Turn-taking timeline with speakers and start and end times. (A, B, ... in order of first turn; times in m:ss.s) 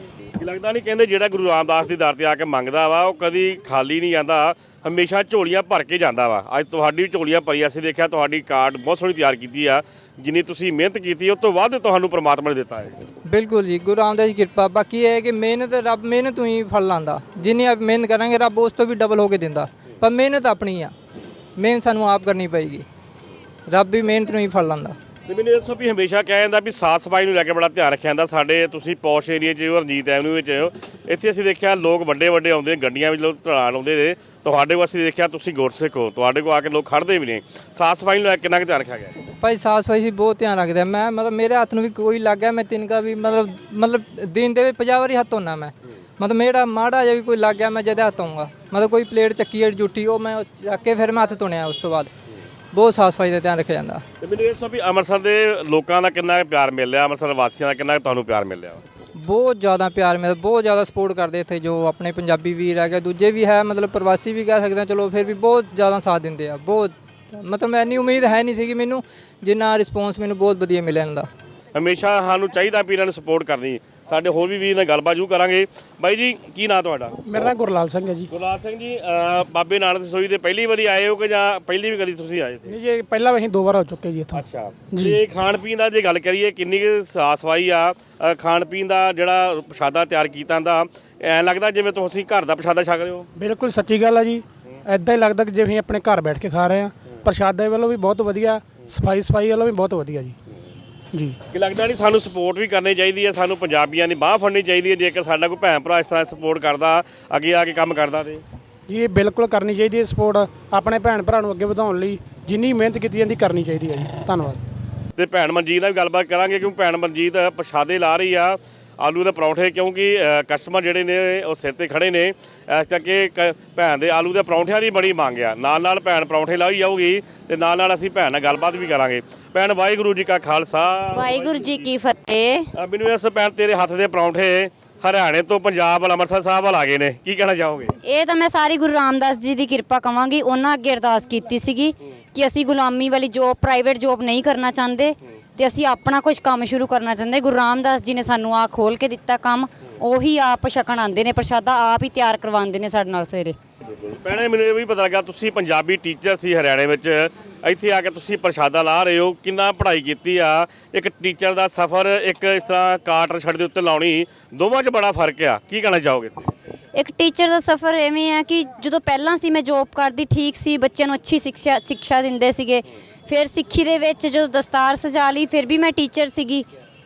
0:00.4-0:13.0 A
0:13.2-0:20.9 B
0:21.6-0:22.8 B
0:23.7-0:25.0 B
0:25.3-0:39.1 A
0:39.4-0:52.1 B
0:52.7-0:54.0 B
0:54.2-0:58.8 A
0:59.2-1:11.3 B
1:11.7-1:17.2 A
1:17.2-1:18.3 C
1:18.3-1:22.7 A
1:22.6-1:25.2 C
1:24.3-1:33.3 A
1:33.4-1:40.4 C
1:41.5-1:48.4 A
1:48.9-1:54.6 C
1:55.2-2:11.8 A
2:11.1-2:12.7 D
2:12.8-2:18.0 A
2:18.0-2:33.6 D
2:33.9-2:46.5 A
2:46.9-2:56.7 D